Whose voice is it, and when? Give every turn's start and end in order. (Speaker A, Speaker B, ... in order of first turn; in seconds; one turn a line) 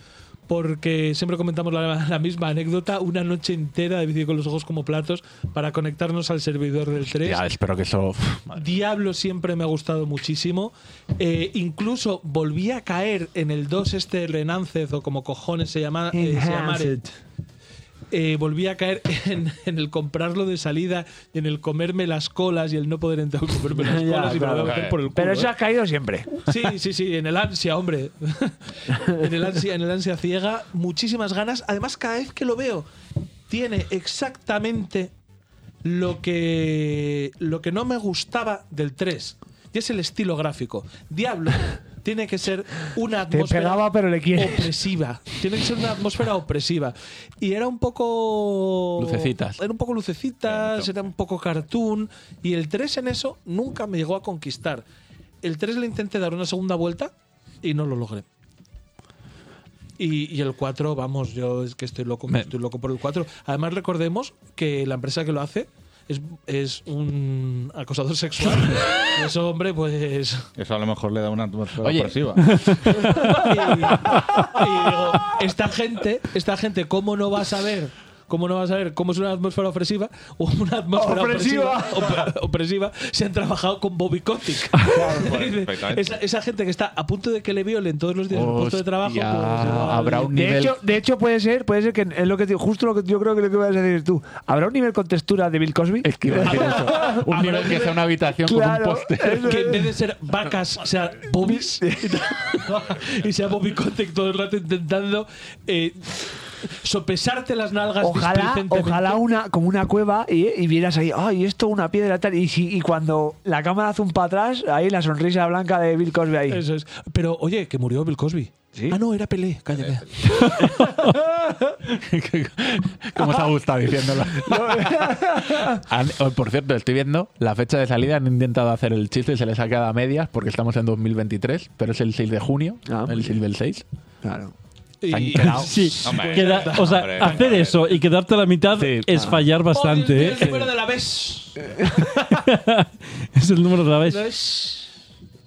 Speaker A: 0.5-7.4
Speaker B: 7.1-8.8
Speaker A: 8.6-17.0
Speaker C: 16.1-17.1
Speaker A: 18.1-25.5
Speaker C: 23.7-26.5
Speaker D: 24.6-25.0
Speaker A: 26.5-32.9
Speaker A: 33.5-35.1
Speaker A: 35.8-54.8
Speaker C: 43.3-44.8
Speaker B: 49.0-49.6
Speaker D: 50.5-51.0
Speaker A: 55.4-57.1
Speaker A: 57.6-58.2
Speaker A: 60.0-70.5
Speaker D: 70.6-72.8
Speaker B: 71.8-72.4
Speaker E: 72.6-73.1
Speaker A: 72.7-90.4
Speaker C: 81.0-82.3
Speaker D: 84.9-86.1
Speaker B: 88.3-90.8
Speaker C: 90.2-97.7
Speaker B: 96.0-99.7
Speaker A: 96.4-98.0
Speaker C: 98.3-99.9
Speaker A: 99.4-109.2
Speaker C: 101.4-102.2
Speaker C: 108.0-116.6
Speaker A: 116.5-121.1
Speaker B: 121.8-125.2
Speaker C: 124.5-125.8
Speaker B: 125.8-133.8
Speaker C: 132.9-133.3
Speaker C: 134.2-134.5
Speaker A: 135.0-137.6
Speaker B: 135.1-135.9
Speaker E: 135.4-140.7
Speaker D: 136.0-138.0
Speaker B: 138.7-139.3
Speaker C: 139.1-139.4
Speaker A: 139.7-142.2
Speaker E: 142.3-144.3
Speaker A: 144.0-144.9